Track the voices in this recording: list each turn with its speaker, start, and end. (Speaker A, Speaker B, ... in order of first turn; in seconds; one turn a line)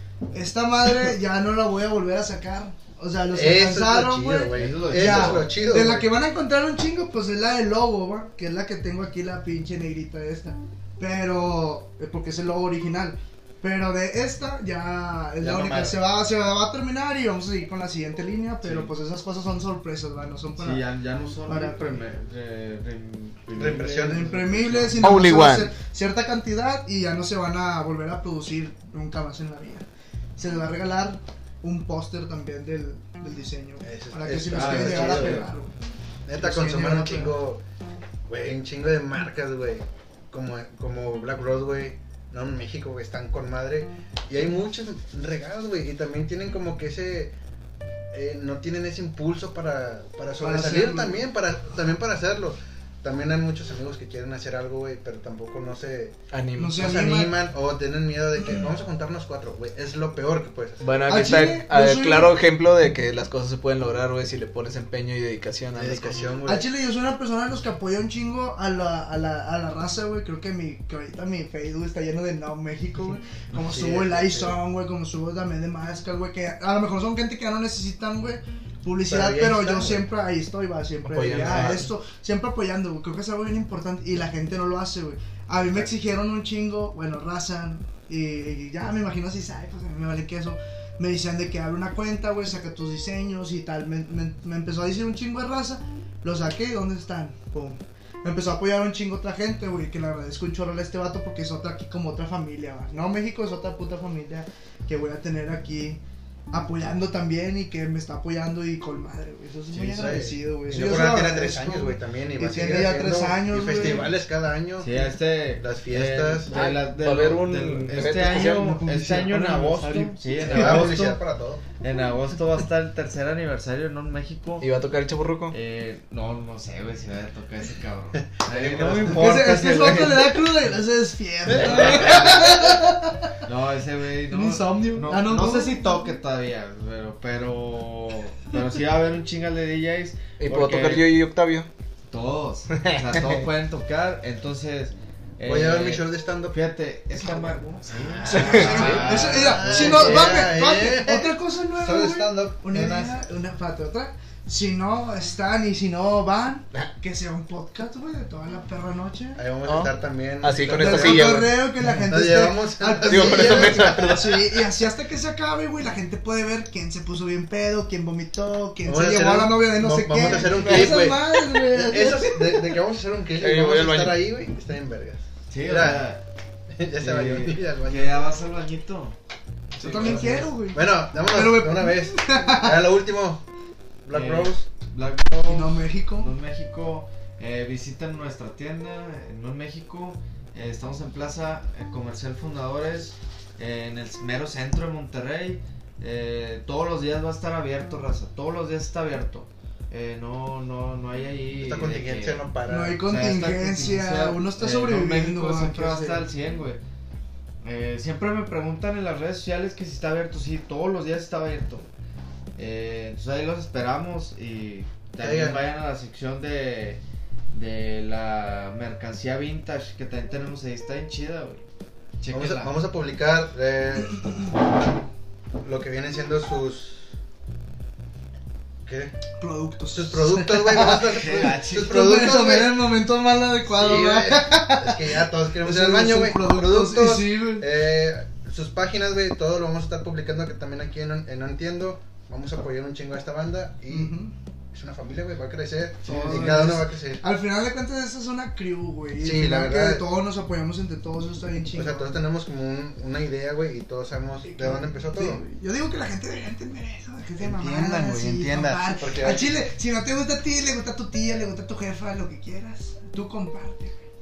Speaker A: 0.3-20.9
Speaker B: 3.3-6.1
Speaker C: 4.5-5.5
Speaker B: 15.4-16.0
Speaker C: 18.6-18.9
Speaker C: 20.6-25.1
Speaker A: 21.5-22.0
Speaker B: 23.6-25.1
Speaker A: 24.0-29.9
Speaker D: 25.0-25.7
Speaker A: 30.4-35.7
Speaker B: 33.8-35.5
Speaker C: 34.5-35.5
Speaker B: 36.3-37.6
Speaker A: 36.4-37.4
Speaker B: 38.3-47.3
Speaker B: 48.1-56.1
Speaker A: 50.4-51.2
Speaker D: 56.3-56.9
Speaker A: 56.6-57.4
Speaker B: 56.8-60.9
Speaker D: 60.8-66.3
Speaker A: 61.0-62.3
Speaker B: 65.8-66.7
Speaker A: 66.5-106.0
Speaker B: 73.6-74.6
Speaker B: 79.1-80.1
Speaker D: 81.0-81.9
Speaker B: 81.2-81.9
Speaker A: 106.5-114.2
Speaker B: 109.7-115.0
Speaker C: 114.8-121.2
Speaker B: 115.6-116.5
Speaker D: 116.5-118.9
Speaker A: 118.6-120.8
Speaker B: 120.3-121.6
Speaker C: 121.8-124.7
Speaker D: 124.6-125.6
Speaker C: 125.5-130.4
Speaker B: 128.2-129.5
Speaker A: 129.0-133.3
Speaker B: 131.6-132.2
Speaker C: 131.6-132.7
Speaker C: 133.4-141.2
Speaker A: 134.3-135.8
Speaker D: 140.4-141.7
Speaker C: 142.1-150.3
Speaker D: 142.7-143.4
Speaker B: 145.5-146.6
Speaker A: 147.2-159.4
Speaker D: 148.3-149.1
Speaker B: 148.6-153.2
Speaker B: 159.4-161.5
Speaker D: 159.7-161.6
Speaker A: 160.7-172.7
Speaker B: 162.0-164.3
Speaker D: 163.1-164.6
Speaker B: 168.8-176.0
Speaker C: 170.3-170.8
Speaker D: 170.7-171.0
Speaker D: 173.4-174.2
Speaker C: 175.5-176.2
Speaker B: 176.8-178.3
Speaker C: 177.0-179.2
Speaker D: 179.8-180.2
Speaker A: 179.8-182.9
Speaker B: 179.9-183.4
Speaker C: 179.9-180.5
Speaker B: 184.0-184.7
Speaker C: 184.1-202.4
Speaker A: 185.5-186.3
Speaker B: 201.6-203.0
Speaker A: 202.7-206.3
Speaker C: 203.0-206.8
Speaker C: 207.6-211.9
Speaker C: 212.6-217.0
Speaker B: 215.2-215.6
Speaker C: 217.5-221.6
Speaker C: 222.2-222.7
Speaker B: 222.3-224.5
Speaker B: 225.6-227.1
Speaker B: 228.8-229.2
Speaker A: 229.4-237.7
Speaker B: 229.9-232.8
Speaker C: 231.1-232.1
Speaker B: 233.7-244.1
Speaker A: 243.9-244.3
Speaker B: 244.7-247.2
Speaker A: 246.0-252.2
Speaker C: 246.1-246.8
Speaker B: 249.2-250.1
Speaker B: 251.8-255.4
Speaker A: 254.4-264.0
Speaker B: 257.4-259.6